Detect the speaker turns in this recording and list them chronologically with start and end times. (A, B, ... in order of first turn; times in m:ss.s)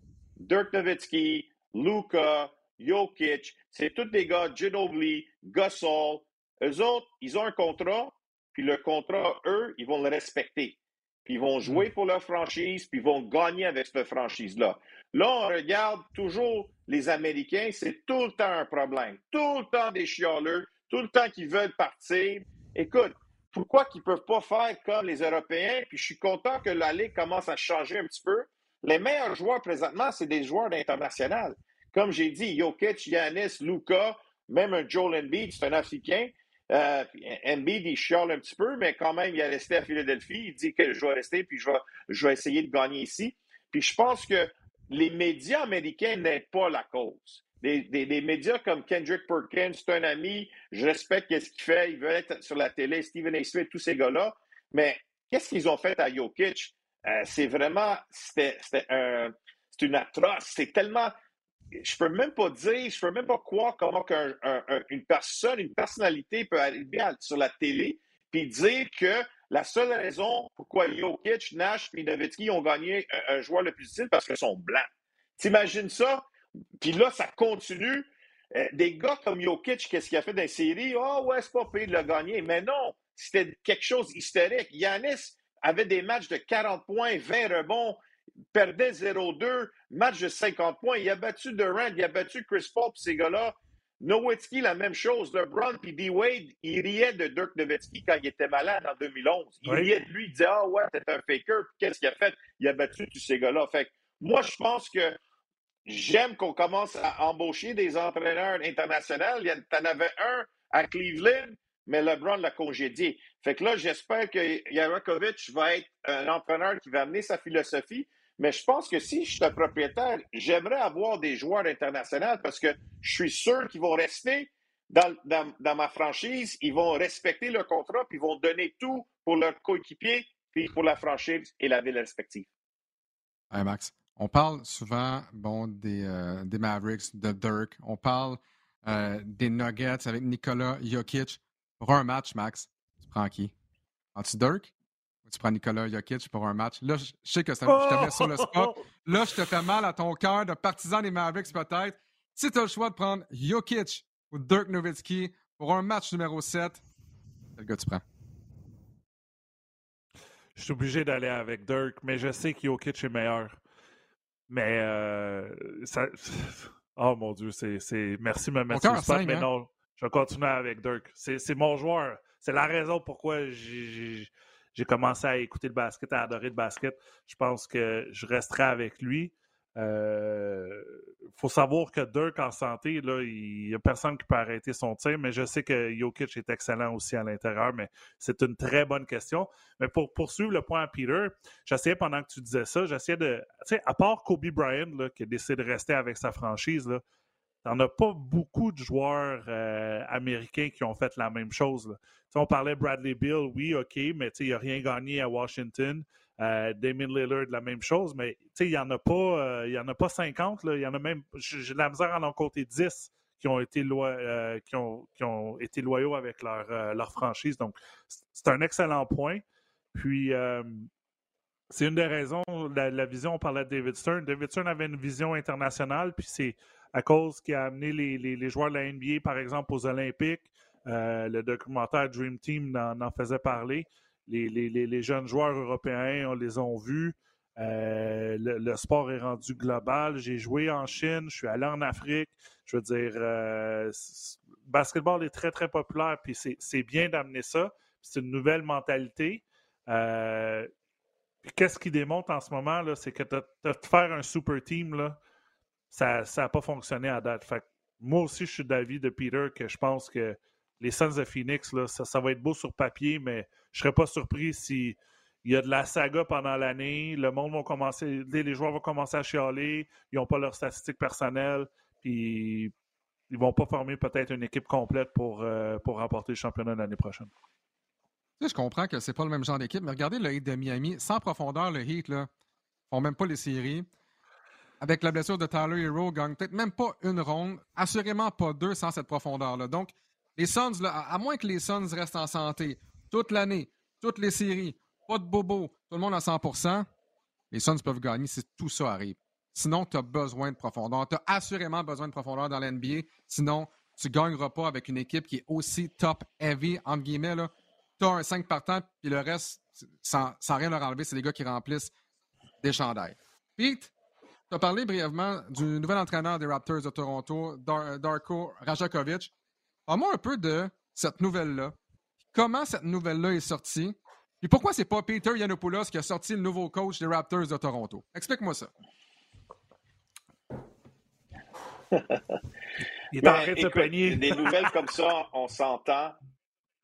0:00.4-1:01.1 A
1:01.7-1:16.2 A
1:16.8-1:28.0 A
1:28.5-1:45.2 A
1:39.6-1:39.9 B
1:45.8-2:12.5 A
2:13.5-2:23.5 C
2:24.1-2:24.7 C
2:25.2-2:36.8 C
2:27.6-2:28.8 B
2:37.6-2:38.0 C
2:40.6-2:43.6 B
2:44.5-3:17.0 B
2:48.7-2:49.5 C
3:17.6-3:39.4 B
3:39.9-3:40.9 B
3:41.7-4:10.7 B
4:11.4-4:15.2 B
4:15.9-4:32.7 B
4:33.3-4:37.3 B
4:38.4-4:42.3 C
4:42.9-4:43.9 C
4:44.8-4:56.8 C
4:57.5-5:11.9 C
5:12.6-5:13.9 C
5:14.5-5:19.3 C
5:19.9-5:21.7 C
5:22.3-5:28.7 C
5:31.9-5:32.2 A
5:33.0-5:34.6 B
5:33.2-5:36.2 A